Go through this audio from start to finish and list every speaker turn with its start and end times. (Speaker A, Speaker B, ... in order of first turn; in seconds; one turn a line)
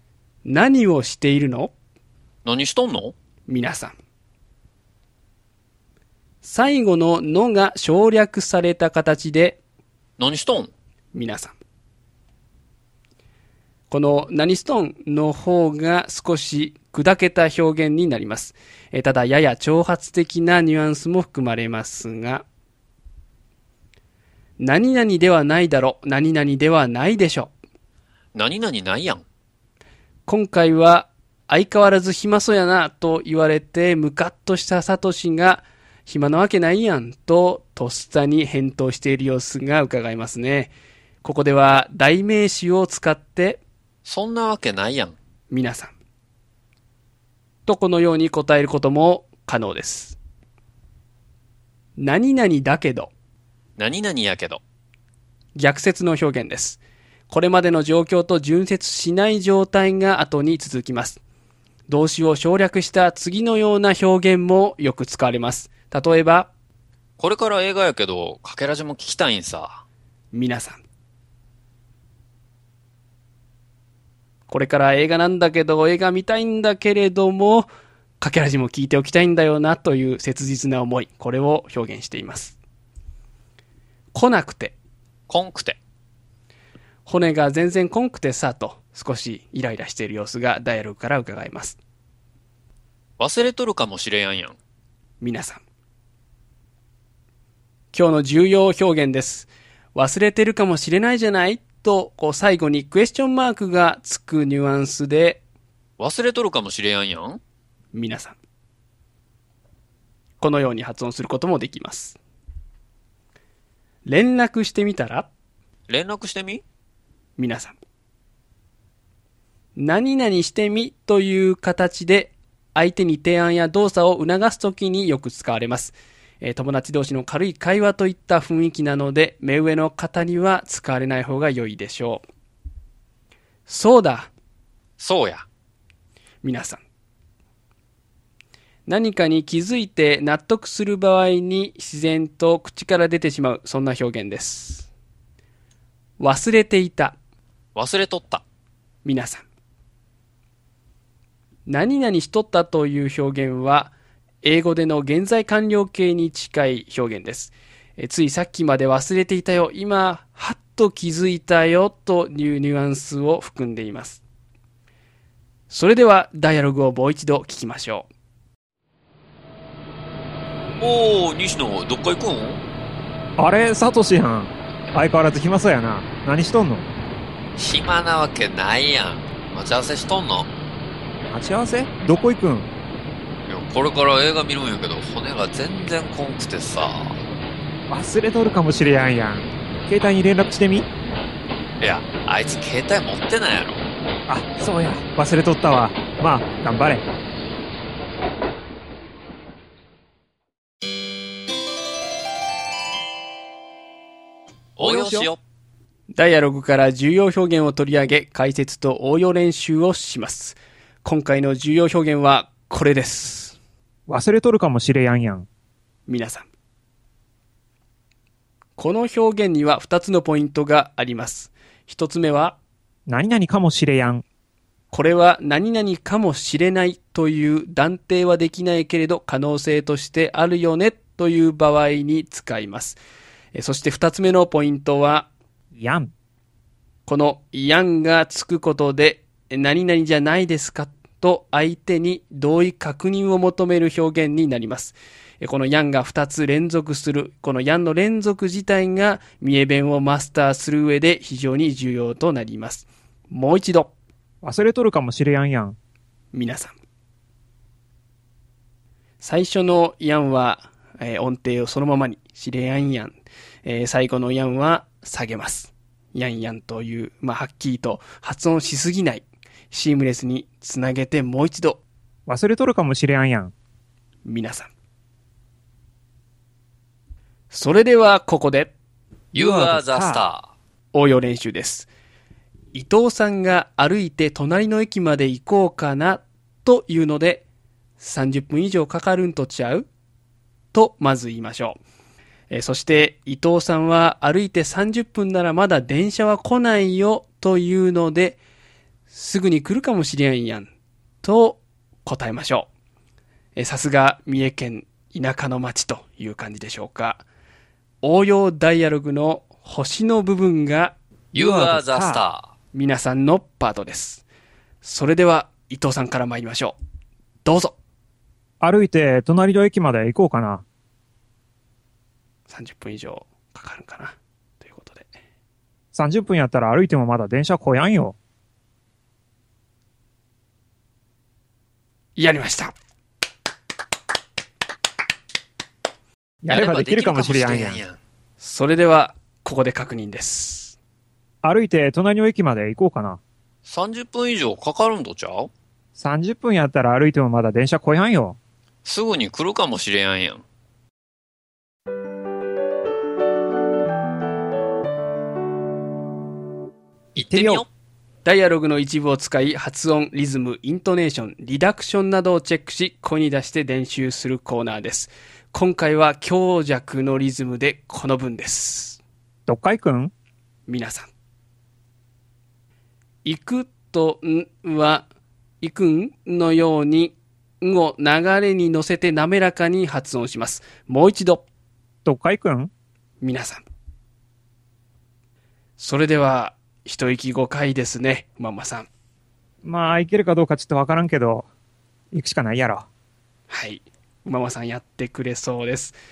Speaker A: 0.5-1.7
Speaker B: 2.5-3.1
Speaker A: 3.5-4.0
Speaker A: 6.4-9.6
Speaker B: 10.2-10.7
Speaker A: 11.1-11.6
Speaker A: 13.9-22.4
Speaker A: 24.6-27.5
Speaker B: 28.4-29.2
Speaker A: 30.3-43.6
Speaker B: 44.0-45.2
Speaker A: 45.5-45.9
Speaker A: 47.7-50.2
Speaker A: 52.0-53.1
Speaker B: 53.8-54.6
Speaker A: 55.5-61.2
Speaker A: 61.9-66.5
Speaker B: 67.2-69.8
Speaker A: 70.3-70.8
Speaker A: 74.5-77.7
Speaker A: 78.2-82.6
Speaker A: 84.1-84.8
Speaker B: 85.3-85.8
Speaker A: 87.0-91.8
Speaker B: 93.2-94.6
Speaker A: 95.2-95.6
Speaker A: 97.9-105.4
Speaker B: 106.0-107.4
Speaker A: 107.9-108.4
Speaker A: 110.4-112.2
Speaker A: 114.1-115.3
Speaker B: 115.9-116.6
Speaker A: 117.4-117.8
Speaker A: 119.8-132.2
Speaker A: 133.7-134.3
Speaker B: 135.0-135.5
Speaker A: 136.4-136.8
Speaker A: 138.9-144.9
Speaker A: 146.2-147.2
Speaker B: 147.8-148.4
Speaker A: 149.0-149.4
Speaker A: 151.7-164.2
Speaker A: 165.7-168.1
Speaker B: 170.8-172.6
Speaker C: 173.4-176.9
Speaker B: 177.6-180.5
Speaker C: 181.3-182.7
Speaker B: 183.5-187.2
Speaker C: 187.9-190.9
Speaker B: 191.8-193.8
Speaker C: 194.3-197.0
Speaker B: 204.8-205.4
Speaker C: 204.8-205.3
Speaker A: 206.1-213.6
Speaker C: 214.1-215.5
Speaker A: 216.1-216.5
Speaker A: 218.8-222.6
Speaker C: 223.1-224.2
Speaker A: 224.9-233.0
Speaker A: 233.6-235.3
Speaker C: 235.8-236.1
Speaker A: 237.1-253.9
Speaker C: 254.4-255.8
Speaker A: 256.3-256.7
Speaker A: 259.2-271.8
Speaker C: 272.3-273.5
Speaker A: 274.2-274.7
Speaker A: 277.5-278.7
Speaker B: 279.3-280.5
Speaker C: 279.4-280.3
Speaker A: 280.9-281.9
Speaker A: 282.7-287.4
Speaker A: 288.0-289.9
Speaker A: 290.7-291.8
Speaker A: 292.5-298.4
Speaker A: 299.1-300.7
Speaker A: 301.2-302.7
Speaker A: 303.6-307.2
Speaker A: 308.0-311.0
Speaker B: 311.3-312.5
Speaker C: 311.3-312.2
Speaker A: 312.7-314.2
Speaker A: 314.8-316.8
Speaker A: 317.4-317.8
Speaker C: 318.6-320.6
Speaker A: 322.5-325.1
Speaker C: 325.9-328.2
Speaker A: 332.2-332.7
Speaker C: 336.4-337.8
Speaker B: 336.5-338.0
Speaker A: 338.4-340.8
Speaker C: 341.4-343.2
Speaker B: 343.6-345.5
Speaker C: 346.0-348.4
Speaker B: 348.9-350.4
Speaker B: 357.1-357.7
Speaker C: 357.3-357.6
Speaker A: 358.2-369.0
Speaker C: 369.5-370.1
Speaker A: 370.7-371.1
Speaker A: 373.2-375.1
Speaker A: 375.6-381.4
Speaker C: 382.1-382.7
Speaker A: 383.2-383.6
Speaker A: 385.8-388.9
Speaker C: 389.6-391.5
Speaker C: 392.1-392.9
Speaker A: 393.5-396.0